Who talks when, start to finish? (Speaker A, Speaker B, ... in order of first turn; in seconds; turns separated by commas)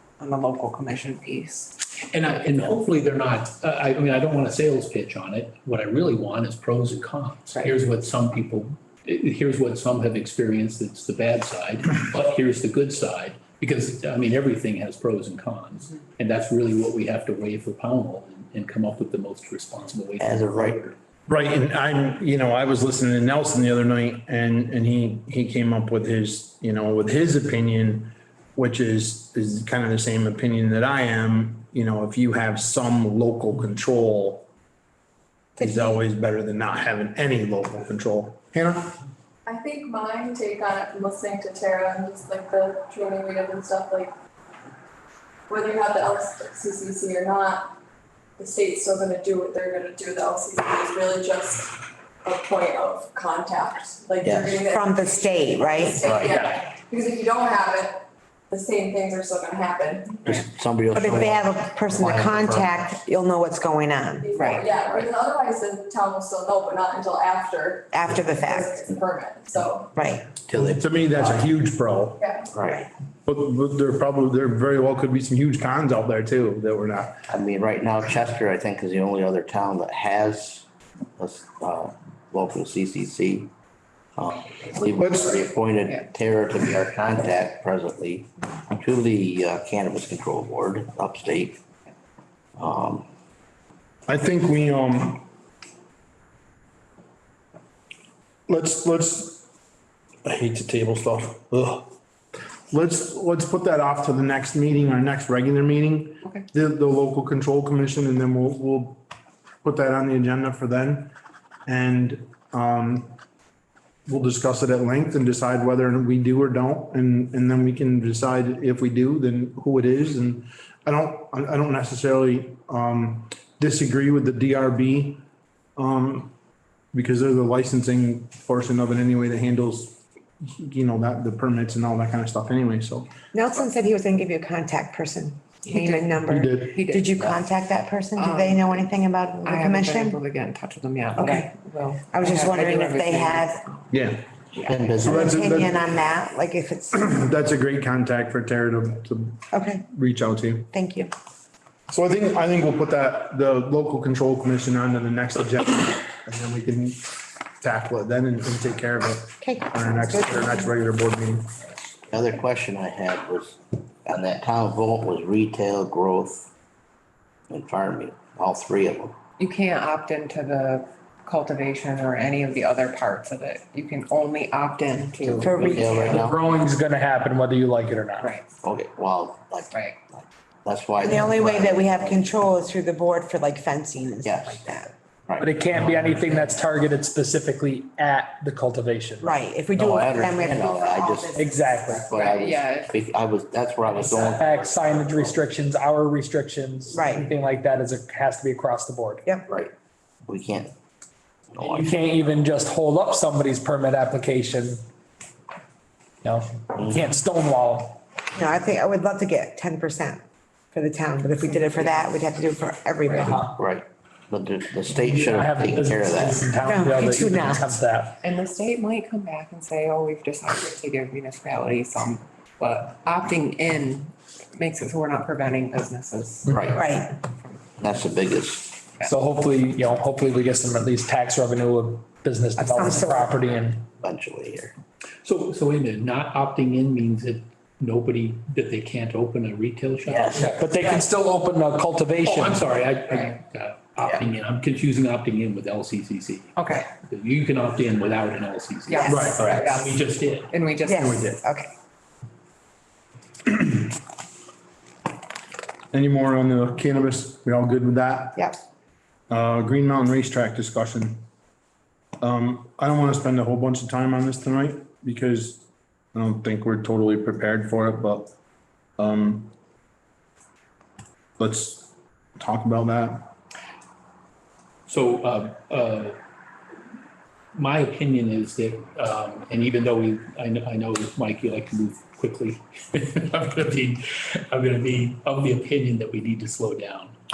Speaker A: 0.2-1.7, Speaker B: 2.1-20.9, Speaker C: 20.2-20.8, Speaker D: 21.3-34.5, Speaker D: 35.6-39.0, Speaker E: 35.6-36.0, Speaker F: 39.5-44.1, Speaker F: 45.5-47.7, Speaker F: 48.4-55.0, Speaker C: 54.2-54.6, Speaker E: 54.6-56.0, Speaker F: 55.7-60.3, Speaker C: 56.0-56.4, Speaker B: 56.2-56.7, Speaker C: 60.2-62.9, Speaker E: 60.9-64.3, Speaker F: 64.2-69.9, Speaker A: 64.3-65.1, Speaker E: 67.9-68.8, Speaker E: 70.0-70.3, Speaker C: 70.4-71.5, Speaker D: 70.5-72.2, Speaker F: 72.2-72.5, Speaker C: 72.5-72.8, Speaker E: 72.6-72.9, Speaker D: 73.2-77.2, Speaker C: 77.3-80.7, Speaker C: 81.2-83.5, Speaker C: 84.2-91.6, Speaker D: 84.9-85.4, Speaker C: 92.5-93.1, Speaker D: 94.1-95.2, Speaker D: 98.5-99.4, Speaker D: 100.2-101.9, Speaker D: 102.7-109.0, Speaker D: 109.6-111.1, Speaker D: 111.7-113.1, Speaker D: 114.1-125.2, Speaker D: 125.8-126.3, Speaker D: 126.9-133.1, Speaker E: 133.3-140.2, Speaker A: 135.6-136.1, Speaker D: 136.3-136.8, Speaker A: 136.7-137.4, Speaker A: 138.2-138.8, Speaker A: 139.4-143.9, Speaker E: 141.2-141.5, Speaker E: 142.1-143.6, Speaker D: 143.9-144.3, Speaker A: 144.5-144.9, Speaker C: 144.7-145.2, Speaker D: 145.0-145.8, Speaker E: 145.0-147.1, Speaker D: 146.9-150.7, Speaker E: 149.5-149.8, Speaker E: 150.7-151.1, Speaker D: 151.9-161.5, Speaker E: 159.4-160.7, Speaker C: 162.1-166.5, Speaker C: 167.5-169.2, Speaker A: 169.4-176.2, Speaker E: 175.4-176.2, Speaker C: 175.5-176.4, Speaker G: 176.1-178.3, Speaker A: 178.2-178.4, Speaker C: 178.6-182.4, Speaker A: 179.7-180.0, Speaker E: 181.0-184.9, Speaker C: 184.2-184.6, Speaker C: 185.3-185.9, Speaker G: 185.4-189.3, Speaker A: 186.1-186.6, Speaker E: 189.2-191.5, Speaker C: 189.7-195.3, Speaker G: 191.3-192.1, Speaker A: 192.1-192.9, Speaker G: 194.1-199.3, Speaker E: 196.9-197.3, Speaker C: 200.2-200.7, Speaker C: 201.5-201.9, Speaker G: 201.6-204.8, Speaker G: 206.2-208.0, Speaker C: 206.8-207.0, Speaker E: 208.3-213.5, Speaker A: 211.4-212.1, Speaker G: 213.1-213.5, Speaker C: 213.5-216.5, Speaker G: 214.9-218.2, Speaker E: 216.6-217.8, Speaker A: 218.2-226.8, Speaker C: 226.5-226.8, Speaker E: 226.7-227.1, Speaker C: 227.8-228.8, Speaker G: 229.0-233.8, Speaker E: 232.6-233.3, Speaker C: 234.0-234.7, Speaker B: 235.2-240.5, Speaker C: 240.1-240.6, Speaker G: 240.4-242.6, Speaker B: 242.2-250.5, Speaker A: 246.6-246.9, Speaker A: 248.9-251.4, Speaker E: 249.0-249.3, Speaker D: 249.1-249.5, Speaker E: 250.8-251.7, Speaker D: 250.9-251.3, Speaker D: 253.5-253.9, Speaker D: 255.9-258.4, Speaker D: 259.3-261.2, Speaker D: 262.2-268.3, Speaker D: 269.0-269.5, Speaker D: 271.4-273.3, Speaker B: 274.9-276.2, Speaker B: 277.5-287.1